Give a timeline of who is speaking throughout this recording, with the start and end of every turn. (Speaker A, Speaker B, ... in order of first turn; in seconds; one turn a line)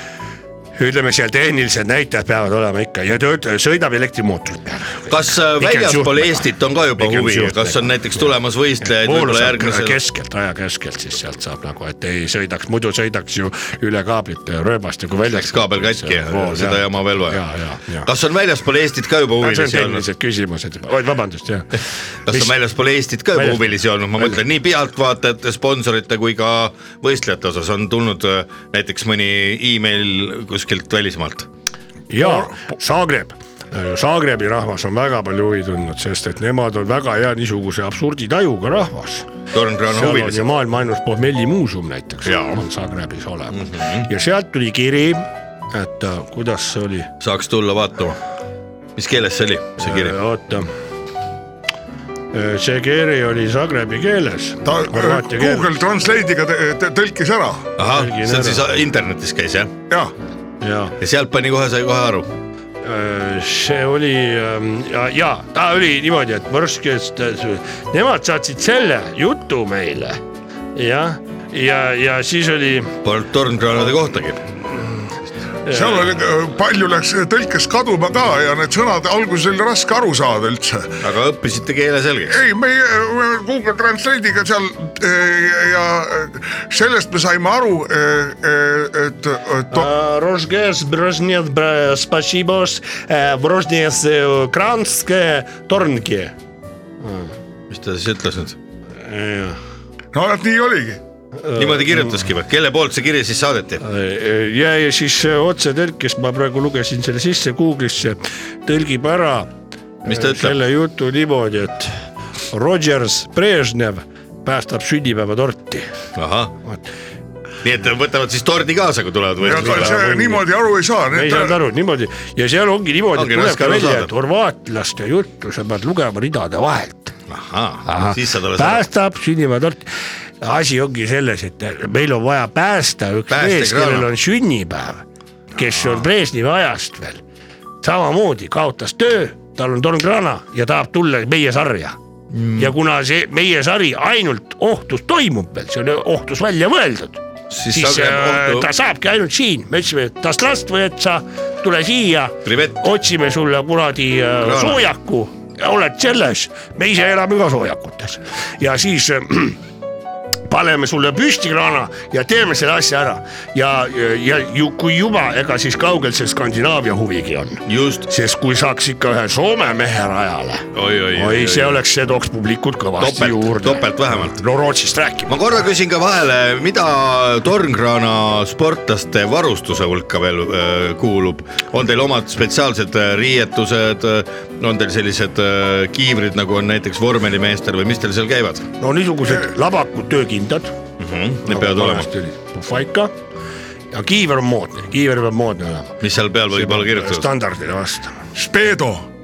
Speaker A: 0.8-18.1
Speaker B: 5.1-10.0
Speaker B: 15.3-17.4
Speaker B: 18.0-20.0
Speaker A: 19.4-22.5
Speaker B: 22.3-31.5
Speaker A: 23.3-23.6
Speaker A: 32.1-39.3
Speaker B: 39.5-40.4
Speaker A: 39.9-47.1
Speaker B: 42.2-42.6
Speaker B: 43.5-44.1
Speaker B: 47.2-48.2
Speaker B: 49.0-50.1
Speaker A: 49.8-50.7
Speaker A: 52.3-55.7
Speaker C: 54.6-57.7
Speaker B: 57.8-59.7
Speaker A: 57.8-58.6
Speaker A: 60.6-61.0
Speaker B: 61.0-62.3
Speaker A: 62.8-70.2
Speaker A: 70.7-73.0
Speaker B: 73.0-74.4
Speaker A: 75.6-76.2
Speaker C: 75.7-81.0
Speaker B: 81.0-82.4
Speaker C: 82.3-89.9
Speaker A: 89.7-96.3
Speaker A: 97.0-97.3
Speaker B: 97.7-98.6
Speaker A: 99.0-99.6
Speaker C: 100.1-101.0
Speaker A: 101.4-102.2
Speaker B: 101.5-103.8
Speaker A: 103.8-109.5
Speaker A: 110.0-111.9
Speaker B: 110.0-110.6
Speaker A: 112.5-115.9
Speaker B: 116.2-116.5
Speaker B: 117.6-120.0
Speaker C: 119.4-121.6
Speaker A: 119.5-120.4
Speaker A: 121.1-127.1
Speaker B: 123.1-124.1
Speaker B: 127.3-128.8
Speaker A: 127.8-129.9
Speaker A: 130.4-135.0
Speaker B: 133.3-134.1
Speaker A: 135.6-137.2
Speaker A: 137.8-142.0
Speaker B: 142.3-142.7
Speaker A: 142.6-159.6
Speaker B: 147.5-148.7
Speaker B: 152.4-152.8
Speaker B: 154.4-154.8
Speaker A: 160.5-175.4
Speaker B: 167.7-168.1
Speaker B: 170.7-171.8
Speaker B: 173.0-174.4
Speaker B: 175.3-188.7
Speaker A: 188.8-190.7
Speaker B: 191.0-192.1
Speaker A: 191.4-193.1
Speaker A: 193.9-195.9
Speaker B: 196.0-197.3
Speaker A: 196.5-198.2
Speaker C: 198.3-199.1